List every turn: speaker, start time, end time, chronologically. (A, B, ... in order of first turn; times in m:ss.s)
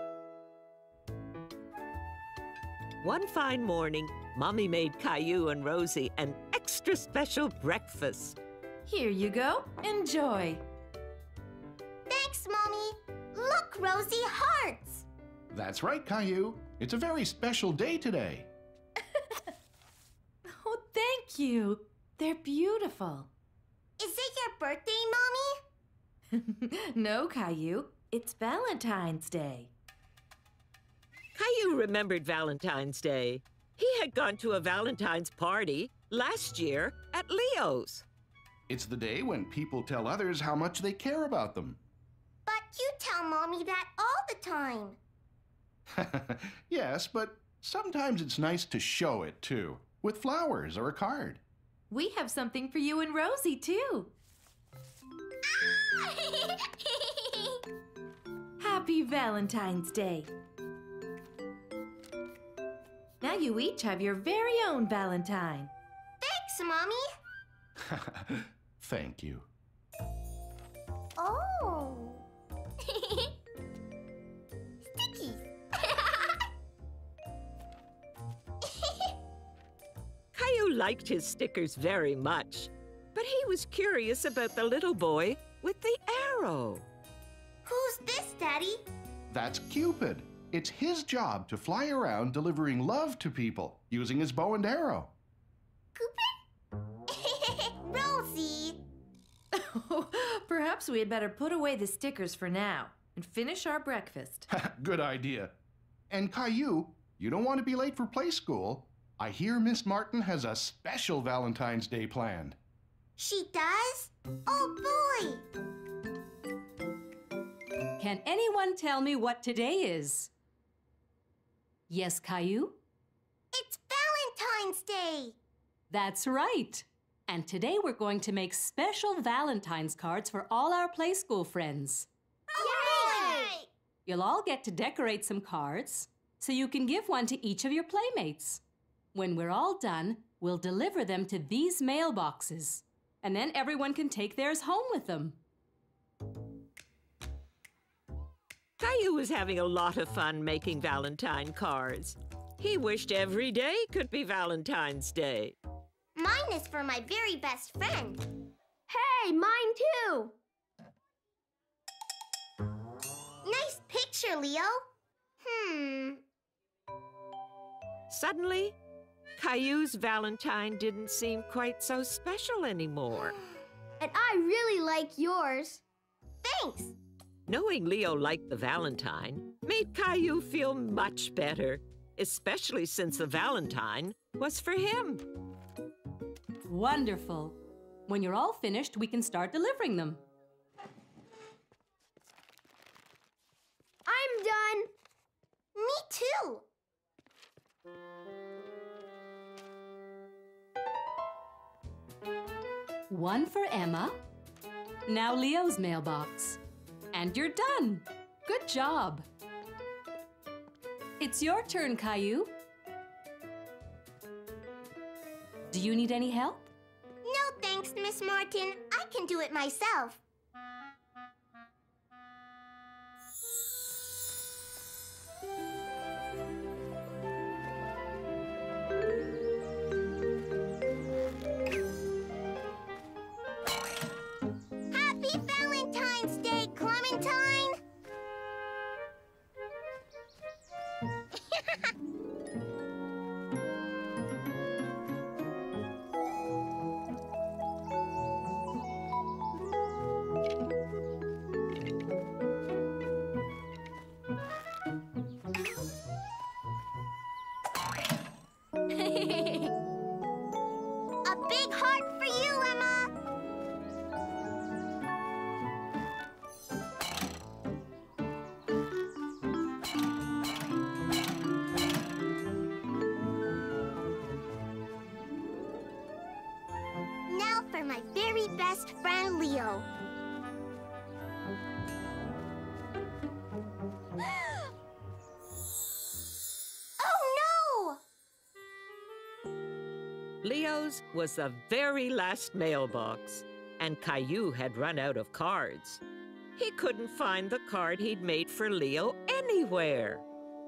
0:03.0-0:08.4 A
0:08.9-0:10.6 B
0:12.1-0:15.0 C
0:15.5-0:18.5 D
0:20.5-0:23.3 B
0:24.0-0:25.6 C
0:26.3-0:29.7 B
0:31.4-0:38.1 A
0:38.7-0:41.8 D
0:42.5-0:45.0 C
0:45.9-0:51.4 D
0:51.9-0:54.1 B
0:58.6-1:00.3 B
1:03.2-1:05.7 B
1:06.2-1:07.1 C
1:07.9-1:09.5 D
1:11.2-1:12.2 C
1:12.9-1:13.3 C
1:14.8-1:16.3 C
1:18.8-1:19.1 C
1:20.3-1:26.9 A
1:27.6-1:28.8 C
1:29.3-1:35.1 D
1:36.0-1:36.3 C
1:37.1-1:38.8 C
1:39.5-1:44.4 B
1:44.5-1:45.5 D
1:46.1-1:52.6 D
1:53.2-1:55.4 C
1:58.0-2:00.3 E
2:01.9-2:02.8 E
2:03.5-2:05.4 C
2:05.9-2:12.1 E
2:12.5-2:13.6 F
2:12.6-2:13.7 C
2:14.1-2:18.6 E
2:19.1-2:25.4 E
2:28.8-2:35.6 A
2:36.2-2:38.2 C
2:38.9-2:40.3 F
2:43.4-2:44.8 C
2:45.4-2:46.2 C
2:48.1-2:48.8 A
2:49.4-2:53.4 A
2:54.0-2:55.8 F
2:56.4-2:56.9 C
2:57.5-3:05.3 A
3:06.7-3:10.2 E
3:14.1-3:14.9 F
3:15.8-3:16.6 C
3:23.1-3:24.2 E
3:25.1-3:26.6 E
3:27.1-3:29.2 E
3:31.2-3:32.5 E
3:35.7-3:36.7 E
3:37.2-3:40.2 C
3:54.9-3:57.8 C
4:01.5-4:01.9 C
4:21.2-4:23.1 C
4:37.3-4:39.9 C
4:47.0-4:48.0 C
4:50.4-4:56.0 A
4:56.6-5:00.2 A